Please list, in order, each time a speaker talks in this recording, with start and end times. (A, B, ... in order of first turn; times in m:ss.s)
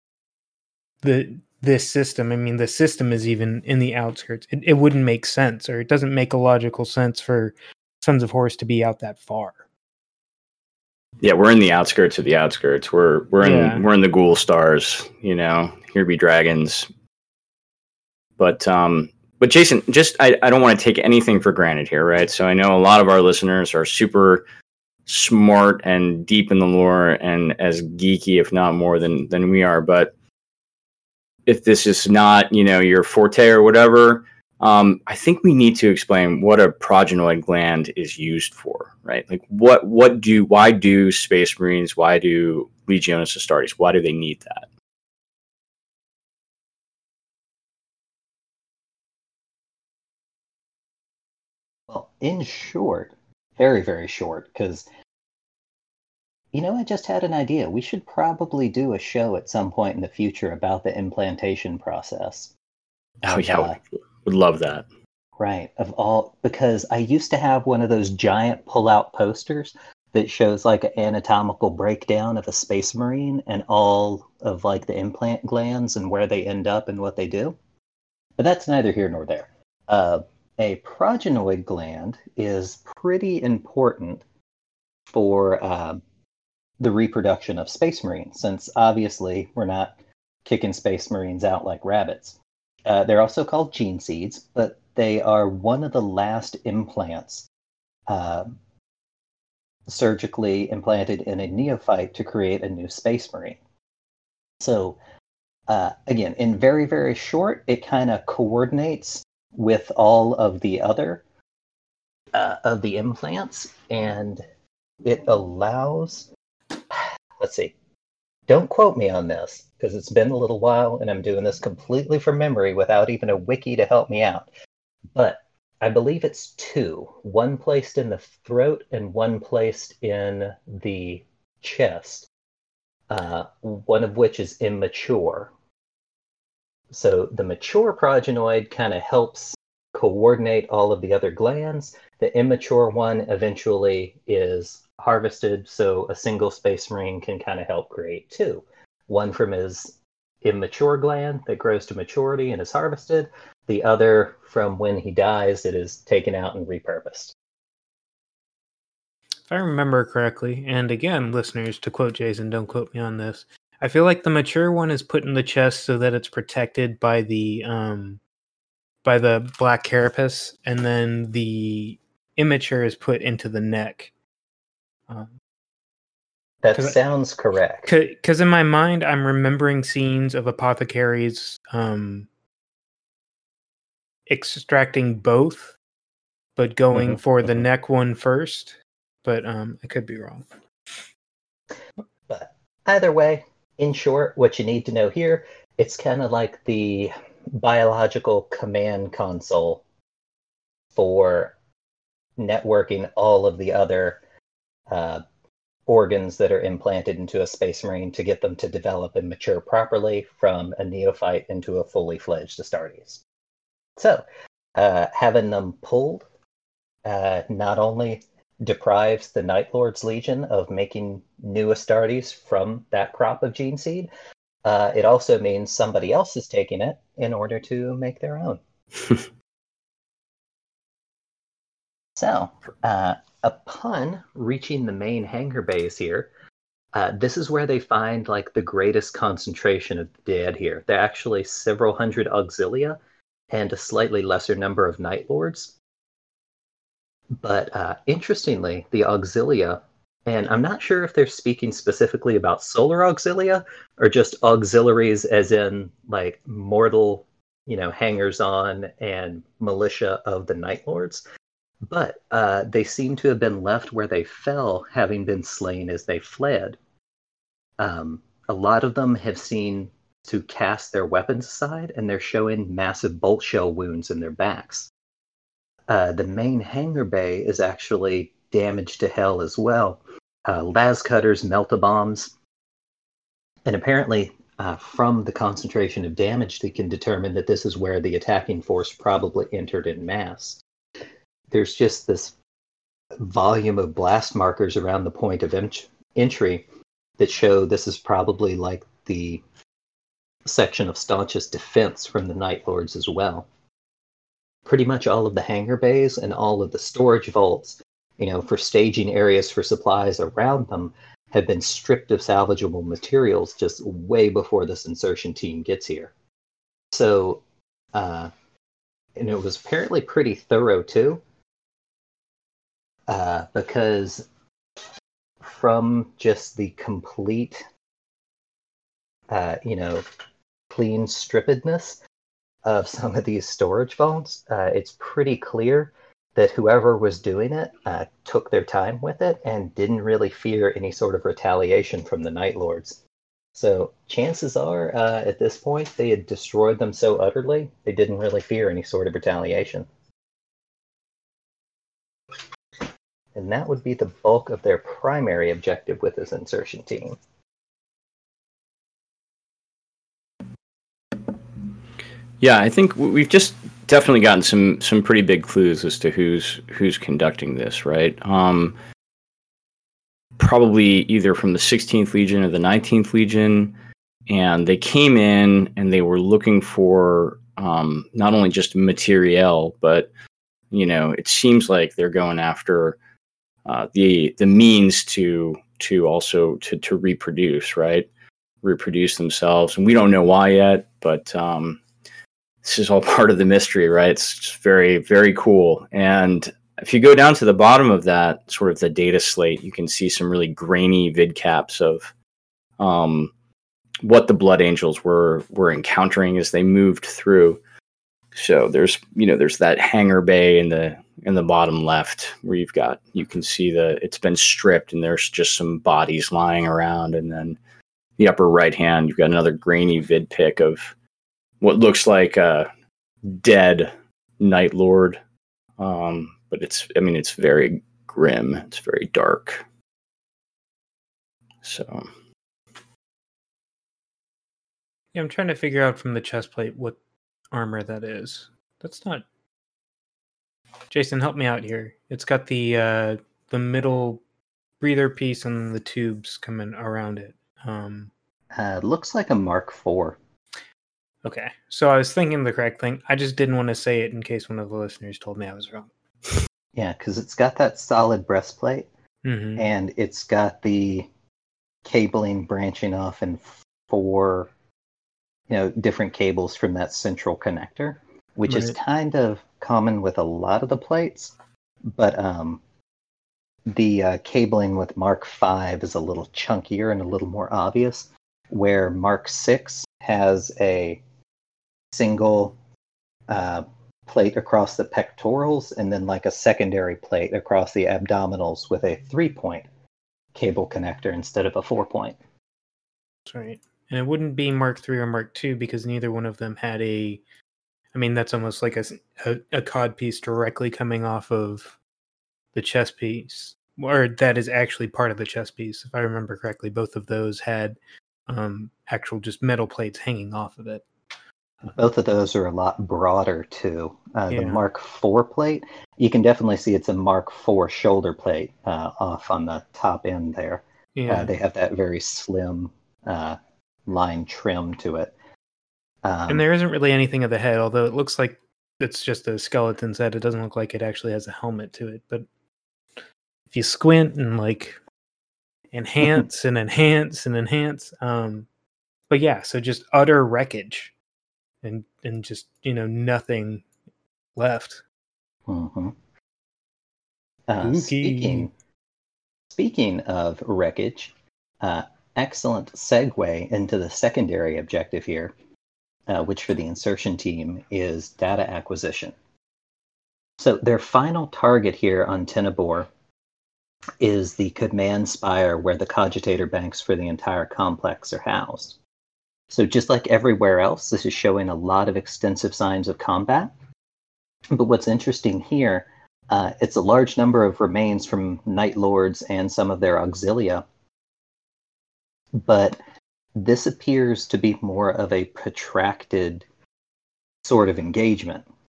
0:01.0-0:09.6 A
0:11.2-0:16.9 B
0:13.4-0:13.8 A
0:18.4-0:24.4 B
0:25.1-0:30.1 B
0:31.5-0:44.7 B
0:51.9-0:54.9 C
0:56.5-1:02.5 C
1:03.2-1:03.8 C
1:03.2-1:04.8 B
1:05.4-1:17.6 C
1:18.4-1:24.2 C
1:25.1-1:26.0 C
1:26.8-1:37.5 C
1:38.1-1:38.6 C
1:39.9-1:43.6 C
1:44.6-1:45.0 C
1:45.7-1:51.2 C
1:52.3-1:54.4 C
1:55.0-1:56.3 C
1:56.9-1:57.7 C
1:58.5-2:04.5 C
2:05.1-2:12.3 C
2:13.1-2:15.5 C
2:16.9-2:37.3 C
2:39.5-2:48.2 A
2:49.0-2:54.1 A
2:56.6-2:57.9 C
2:57.8-3:02.3 A
3:04.3-3:05.8 A
3:06.6-3:10.4 A
3:06.9-3:07.2 C
3:12.3-3:19.8 C
3:20.9-3:21.5 C
3:22.4-3:24.2 C
3:24.9-3:25.2 C
3:25.9-3:33.2 C
3:34.0-3:34.2 C
3:34.8-3:36.2 C
3:37.0-3:44.1 C
3:44.6-3:48.6 C
3:52.2-3:56.3 C
3:56.9-4:03.0 C
4:03.5-4:05.7 C
4:07.4-4:21.2 C
4:21.8-4:26.8 C
4:27.8-4:34.9 C
4:35.9-4:42.3 C
4:43.6-4:50.6 C
4:51.5-4:52.3 C
4:53.2-4:56.6 C
4:57.2-4:59.4 C
5:00.4-5:03.5 C
5:04.6-5:16.1 C
5:16.9-5:17.4 C
5:17.9-5:18.3 C
5:19.2-5:21.2 C
5:23.1-5:24.3 C
5:25.4-5:27.6 C
5:29.3-5:30.0 C
5:30.7-5:32.0 C
5:32.6-5:43.0 C
5:43.5-5:49.9 C
5:53.3-5:57.2 C
6:02.4-6:08.7 B
6:10.4-6:13.7 B
6:14.3-6:20.1 B
6:20.7-6:23.0 B
6:23.6-6:28.1 B
6:28.6-6:31.8 B
6:32.6-6:42.1 B
6:42.8-6:43.3 B
6:44.0-6:47.6 B
6:48.3-6:57.6 B
6:58.2-7:00.9 B
7:01.6-7:02.7 B
7:03.2-7:05.2 B
7:05.8-7:09.6 B
7:11.6-7:12.1 B
7:15.1-7:17.0 A
7:17.5-7:19.2 A
7:20.9-7:24.2 A
7:24.8-7:28.1 A
7:28.5-7:30.2 C
7:31.2-7:35.9 A
7:36.7-7:38.9 C
7:39.2-7:39.7 A
7:39.6-7:41.1 C
7:41.8-7:44.5 C
7:45.5-7:51.3 C
7:48.5-7:48.7 A
7:51.8-7:52.6 C
7:53.7-8:01.0 C
8:01.9-8:02.6 C
8:03.3-8:09.6 C
8:10.3-8:12.2 C
8:13.2-8:17.2 A
8:17.9-8:21.8 A
8:22.5-8:30.8 A
8:31.6-8:45.1 C
8:34.3-8:34.6 A
8:40.9-8:41.3 A
8:46.0-8:46.4 C
8:46.3-8:52.2 A
8:53.5-8:54.8 A
8:55.7-8:58.5 A
8:59.1-9:00.9 A
9:01.6-9:03.6 A
9:04.4-9:04.8 A
9:05.5-9:05.9 C
9:07.5-9:08.5 C
9:07.6-9:08.5 A
9:09.5-9:15.3 C
9:16.1-9:19.1 C
9:20.4-9:22.9 C
9:24.0-9:28.8 C
9:29.5-9:33.5 C
9:34.5-9:40.6 C
9:42.4-9:42.8 C
9:43.3-9:46.4 C
9:47.4-9:48.4 C